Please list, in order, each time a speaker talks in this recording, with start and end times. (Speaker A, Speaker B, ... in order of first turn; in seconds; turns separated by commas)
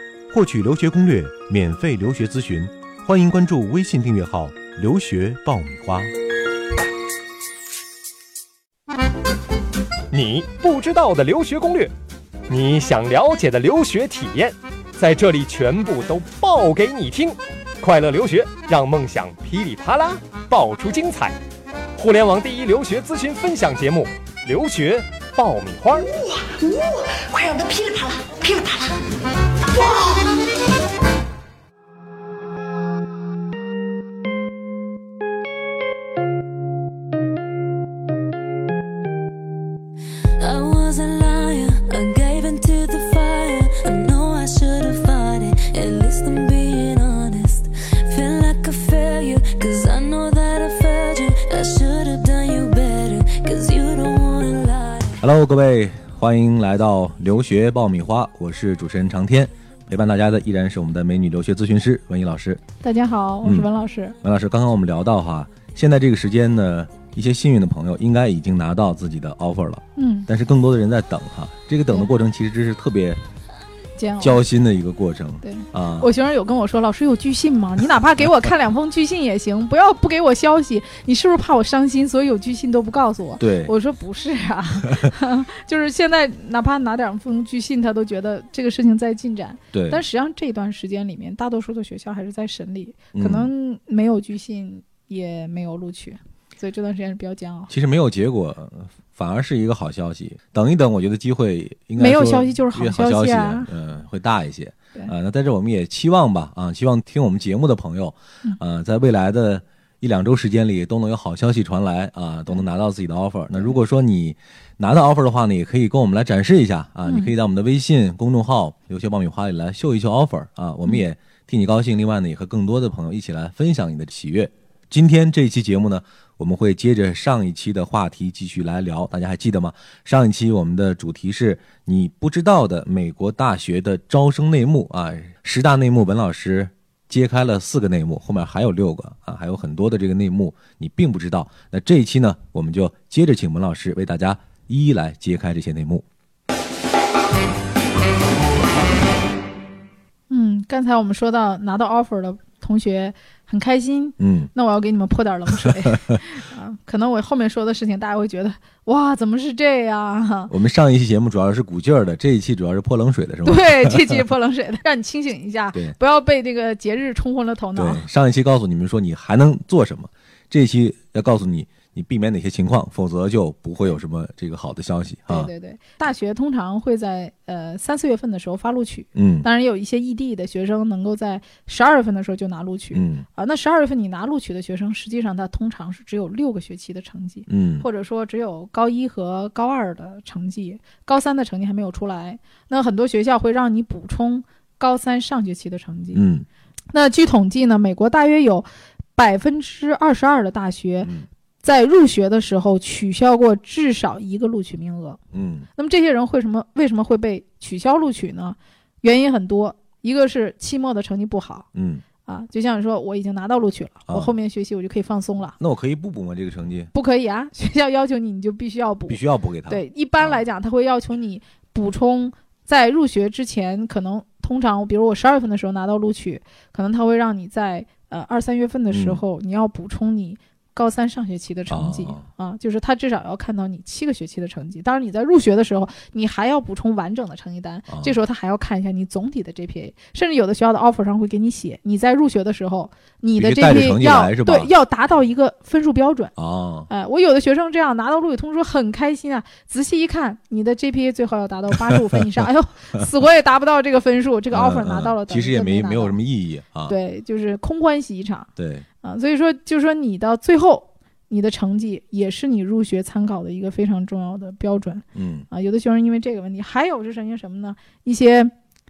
Speaker A: 0.3-6.1, Speaker B: 10.1-11.9, Speaker B: 12.5-21.4, Speaker B: 22.0-26.1, Speaker C: 26.1-30.5, Speaker D: 40.4-55.2, Speaker A: 55.2-62.6, Speaker E: 62.8-64.2, Speaker A: 63.4-63.7, Speaker A: 64.2-73.2, Speaker E: 70.0-70.3, Speaker E: 74.0-74.4, Speaker A: 74.2-76.1, Speaker E: 75.4-97.7, Speaker A: 83.4-83.7, Speaker A: 89.7-90.0, Speaker A: 93.1-93.5, Speaker A: 97.7-146.1, Speaker E: 102.0-103.7, Speaker E: 117.1-117.3, Speaker E: 150.3-160.5, Speaker A: 154.2-154.5, Speaker A: 155.6-156.2, Speaker A: 160.5-164.2, Speaker E: 163.4-168.1, Speaker A: 167.8-175.5, Speaker E: 175.3-196.3, Speaker A: 179.2-179.5, Speaker A: 182.9-183.3, Speaker A: 187.5-187.9, Speaker A: 196.1-196.5, Speaker E: 196.9-201.1, Speaker A: 201.0-201.3, Speaker E: 201.6-205.2, Speaker A: 205.3-205.7, Speaker E: 205.8-211.7, Speaker A: 211.7-212.0, Speaker E: 212.3-215.6, Speaker A: 215.6-216.9, Speaker E: 216.9-246.3, Speaker A: 219.1-220.4, Speaker A: 228.9-229.2, Speaker A: 231.7-232.3, Speaker A: 237.9-238.2, Speaker A: 243.4-244.7, Speaker A: 246.4-246.9, Speaker E: 246.9-256.2, Speaker A: 254.5-256.9, Speaker E: 256.9-258.5, Speaker A: 258.6-258.9, Speaker E: 259.0-268.5, Speaker A: 265.1-265.5